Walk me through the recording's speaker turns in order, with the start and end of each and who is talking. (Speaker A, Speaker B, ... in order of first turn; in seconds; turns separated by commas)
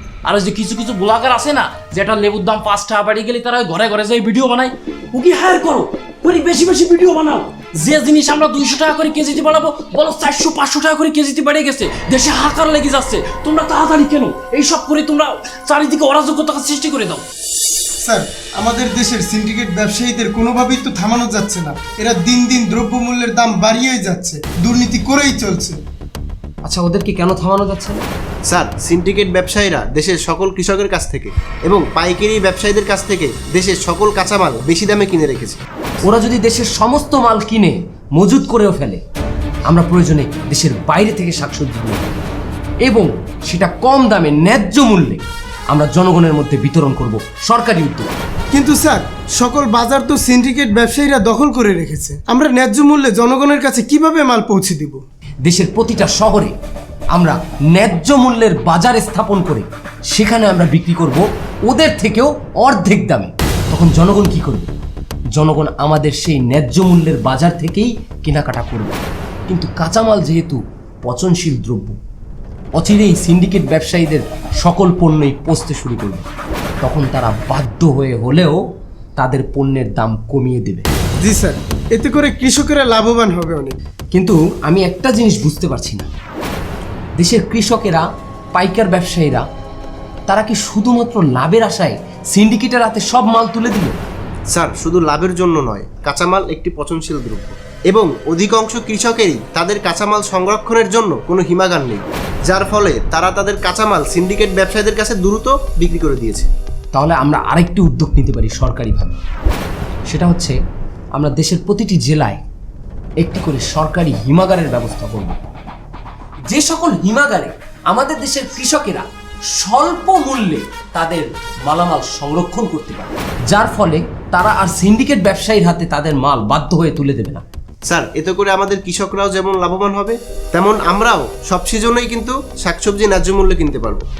Speaker A: 0.2-17.2, Speaker B: 18.0-25.8, Speaker C: 26.6-28.0, Speaker D: 28.5-35.6, Speaker C: 36.0-39.0, Speaker C: 39.7-42.2, Speaker C: 42.8-48.1, Speaker B: 48.5-55.0, Speaker C: 55.4-56.5, Speaker C: 57.1-64.7, Speaker C: 65.3-72.0, Speaker C: 72.8-76.3, Speaker C: 76.8-78.6, Speaker C: 79.2-80.8, Speaker B: 81.2-83.7, Speaker C: 84.1-86.1, Speaker C: 87.2-89.5, Speaker C: 90.3-94.0, Speaker D: 94.5-106.5, Speaker C: 106.9-109.2, Speaker C: 110.1-110.5, Speaker C: 111.1-112.4, Speaker C: 113.2-115.4, Speaker C: 116.5-119.0, Speaker C: 119.6-127.4, Speaker D: 127.9-134.1